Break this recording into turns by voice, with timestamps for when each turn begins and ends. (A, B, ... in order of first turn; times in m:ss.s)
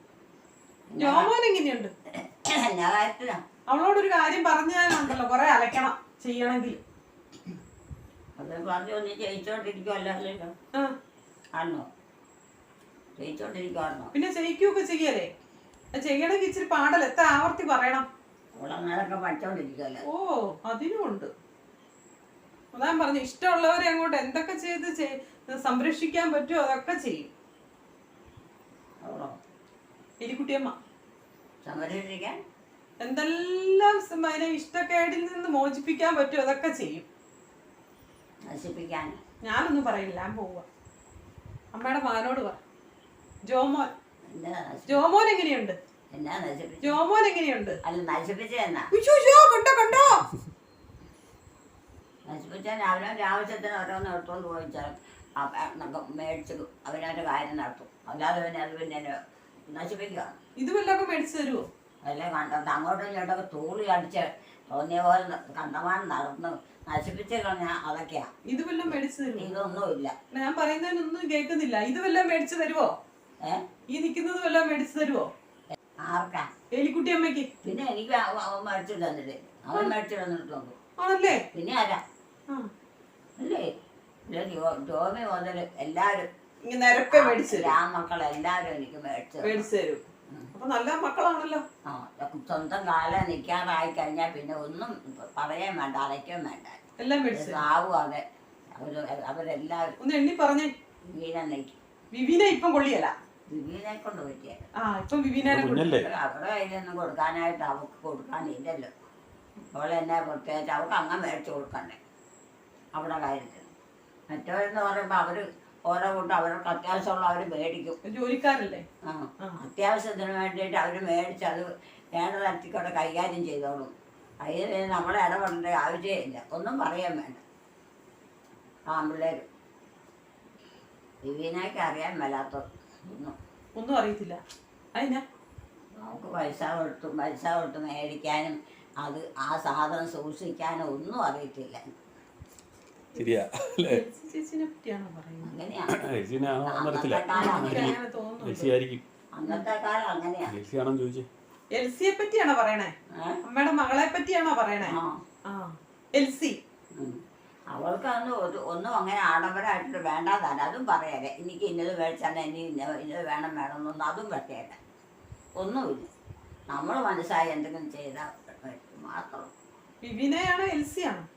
0:00.9-0:01.3 A
0:01.0-0:01.9 B
0:02.1-0:03.4 A
0:03.7-0:06.8 B
0:08.4-0:10.5 A
0:11.5-0:11.9 A
0:13.2-0:14.1 A
0:14.1-0:15.3 B
0:15.9-0:18.0 B
0:18.6-0:20.0 A
0:20.0-0:21.3 B
0:22.7-0:27.3 B
0:29.0-0:29.4 A
0:30.2-0:30.7 B
0:31.6-0:32.4 A
0:33.0-0:37.0 B
0:38.5-0:39.2 A
0:39.4-0:40.6 B
0:41.7-0:42.6 B
0:43.5-0:43.9 B
0:44.3-0:45.0 A
0:44.9-0:45.8 B
0:46.1-0:47.0 A
0:46.8-0:47.8 B
0:47.8-0:48.9 A
0:48.9-0:50.3 B
0:52.2-0:59.2 A
0:59.7-1:00.4 A
1:00.6-1:01.7 B
1:02.0-1:08.3 A
1:08.4-1:09.5 B
1:09.4-1:10.1 A
1:10.3-1:12.9 B
1:13.9-1:15.3 B
1:15.7-1:16.5 A
1:16.7-1:17.5 B
1:17.6-1:20.8 A
1:21.0-1:21.4 B
1:21.3-1:22.0 A
1:23.4-1:23.7 A
1:24.3-1:26.3 A
1:26.6-1:27.7 B
1:27.1-1:29.6 A
1:29.4-1:30.0 B
1:30.5-1:31.6 B
1:31.8-1:36.8 A
1:37.0-1:37.6 B
1:37.3-1:39.9 A
1:40.0-1:40.7 B
1:41.0-1:41.8 A
1:42.1-1:43.1 B
1:43.5-1:44.7 A
1:44.8-1:45.9 B
1:45.4-1:46.1 C
1:45.7-1:48.9 A
1:49.7-1:52.0 A
1:52.9-1:53.7 A
1:54.3-1:58.0 A
1:58.0-1:58.8 B
1:59.0-2:07.4 A
2:08.9-2:09.4 A
2:11.2-2:13.4 A
2:13.8-2:14.4 B
2:14.9-2:15.2 B
2:15.9-2:21.9 A
2:23.1-2:24.0 C
2:23.8-2:25.5 B
2:25.4-2:26.0 A
2:25.9-2:29.0 C
2:26.7-2:27.9 A
2:27.3-2:28.7 B
2:29.3-2:30.5 A
2:30.5-2:31.3 C
2:31.7-2:36.6 B
2:33.1-2:33.4 A
2:34.8-2:35.2 A
2:36.9-2:44.8 A
2:45.6-2:46.1 A
2:46.7-2:49.5 A
2:50.0-2:51.2 B